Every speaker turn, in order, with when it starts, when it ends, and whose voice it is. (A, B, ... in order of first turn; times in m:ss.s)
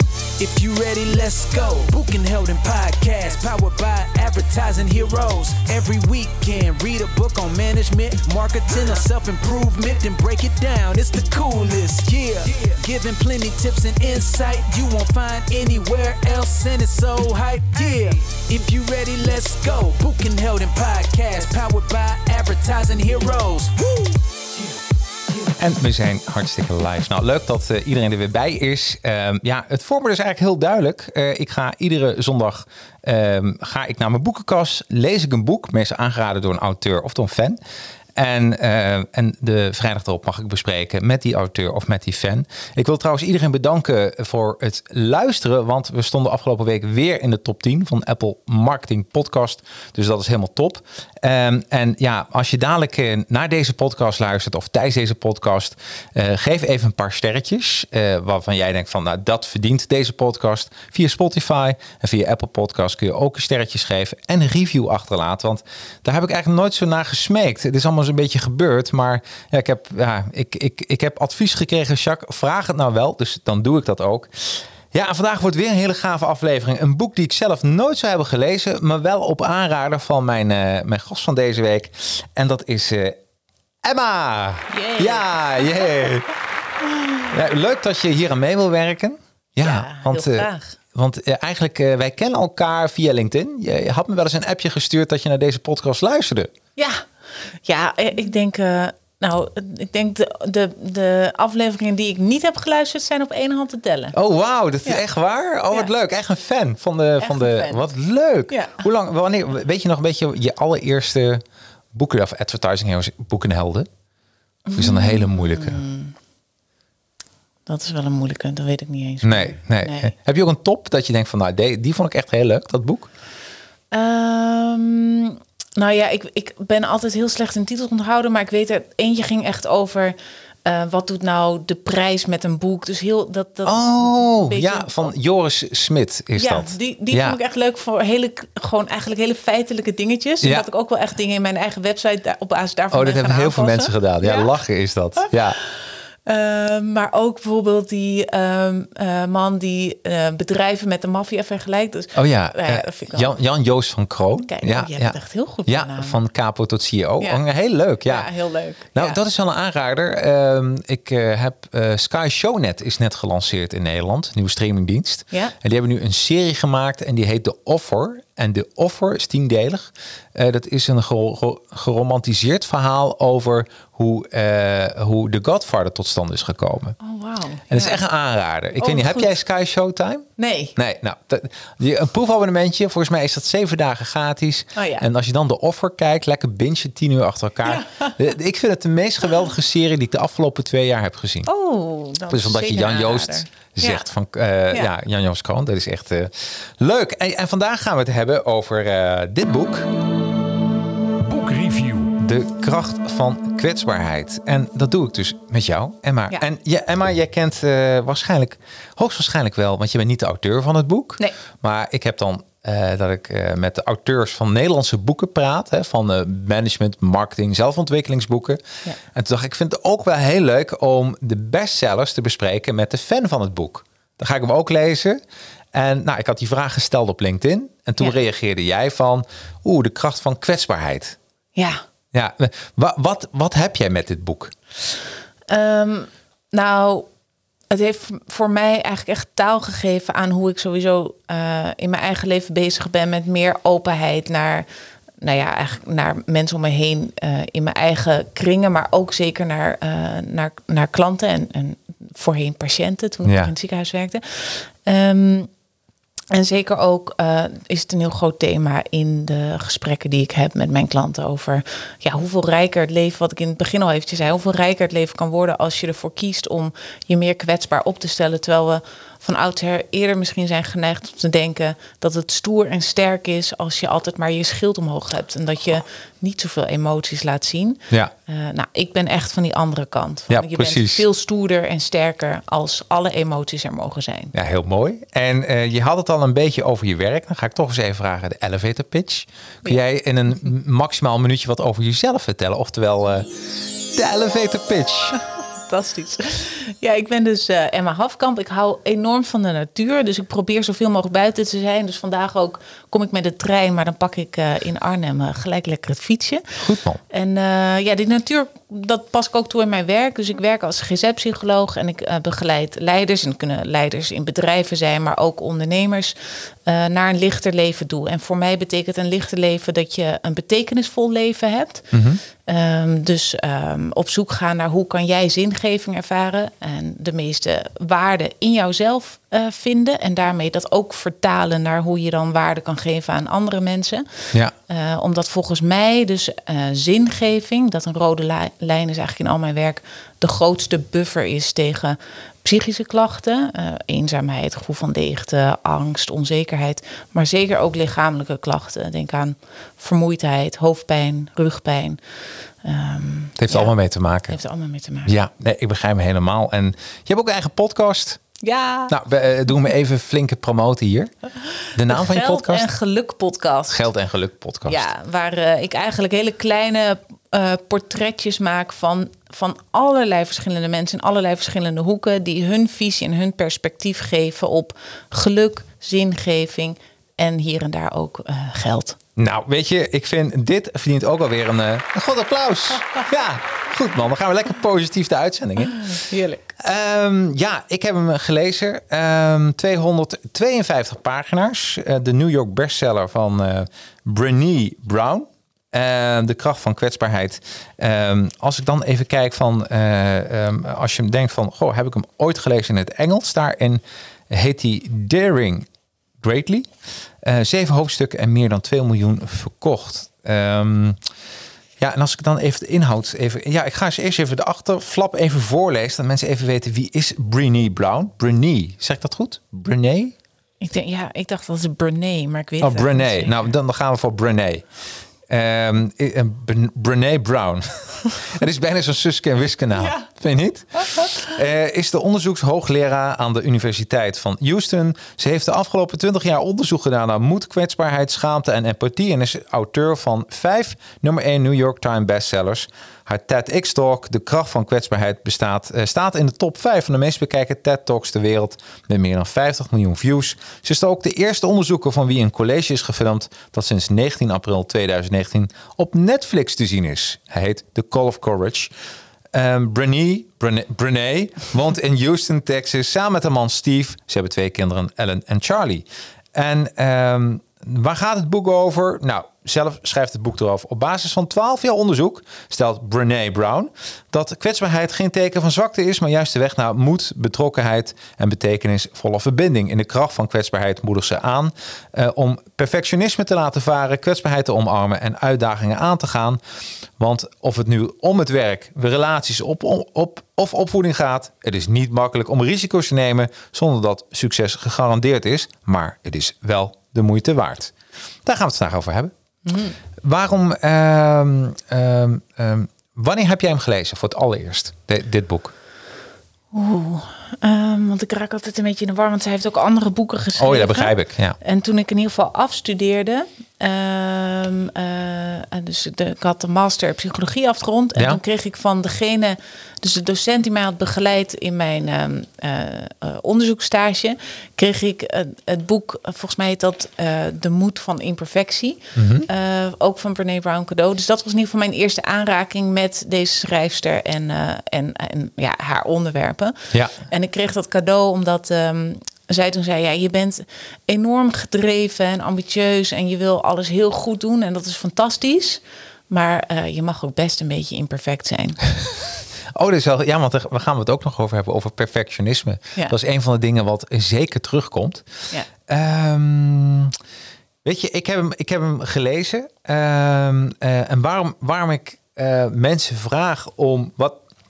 0:00.4-0:24.6 A
0:25.6-0:37.6 B
0:38.2-1:23.2 B
1:23.8-1:26.3 B
1:24.7-1:26.1 C
1:26.8-1:27.2 C
1:27.3-1:36.5 B
1:29.6-1:30.7 C
1:36.8-1:37.1 C
1:37.6-1:44.1 C
1:44.1-1:53.9 B
1:47.2-1:47.8 C
1:48.5-1:48.8 C
1:54.6-1:56.2 C
1:54.7-1:55.8 B
1:57.6-2:00.1 C
1:59.2-2:03.1 B
2:03.9-2:15.1 C
2:13.6-2:17.4 B
2:16.3-2:24.5 C
2:20.4-2:20.7 B
2:22.9-2:25.6 B
2:25.2-2:33.3 C
2:32.1-2:38.3 B
2:34.4-2:36.2 C
2:38.0-2:39.2 C
2:38.9-2:57.0 B
2:57.0-2:58.0 C
2:57.7-3:11.5 B
2:58.8-2:59.3 C
3:00.4-3:00.7 C
3:04.8-3:05.0 C
3:07.6-3:08.1 C
3:11.5-3:14.0 C
3:12.3-3:19.9 B
3:21.2-3:38.6 B
3:39.1-3:45.2 B
3:45.7-3:51.2 B
3:51.5-3:51.8 C
3:52.1-3:54.5 B
3:55.5-3:57.1 C
3:57.7-4:04.7 C
4:05.2-4:15.5 C
4:13.2-4:13.5 B
4:16.3-4:44.3 C
4:40.3-4:41.0 B
4:44.3-4:53.3 B
4:53.9-4:55.2 B
4:55.6-5:06.4 C
5:06.6-5:07.0 B
5:07.1-5:52.0 C
5:21.9-5:22.2 B
5:52.6-5:53.7 C
5:53.4-5:54.4 B
5:54.3-5:55.1 C
5:55.0-5:58.2 B
5:58.4-5:58.9 C
5:58.9-6:01.1 B
6:01.7-6:02.7 B
6:01.8-6:03.9 C
6:03.7-6:04.9 B
6:04.6-6:19.0 C
6:19.2-6:26.1 B
6:25.8-6:26.5 C
6:26.6-6:45.7 B
6:46.2-6:46.7 B
6:47.2-6:51.0 B
6:51.8-7:00.1 B
7:00.6-7:03.4 C
7:02.6-7:04.6 B
7:05.3-7:38.7 B
7:09.8-7:10.0 C
7:10.8-7:11.3 C
7:39.3-8:06.4 B
8:07.0-8:17.7 B
8:18.2-8:19.1 B
8:19.4-8:19.8 C
8:20.0-8:25.5 B
8:26.5-9:08.6 C
8:30.4-8:31.4 B
8:49.0-8:49.3 B
8:56.7-8:57.0 B
9:09.5-9:15.1 B
9:15.6-9:16.9 B
9:17.6-9:24.2 B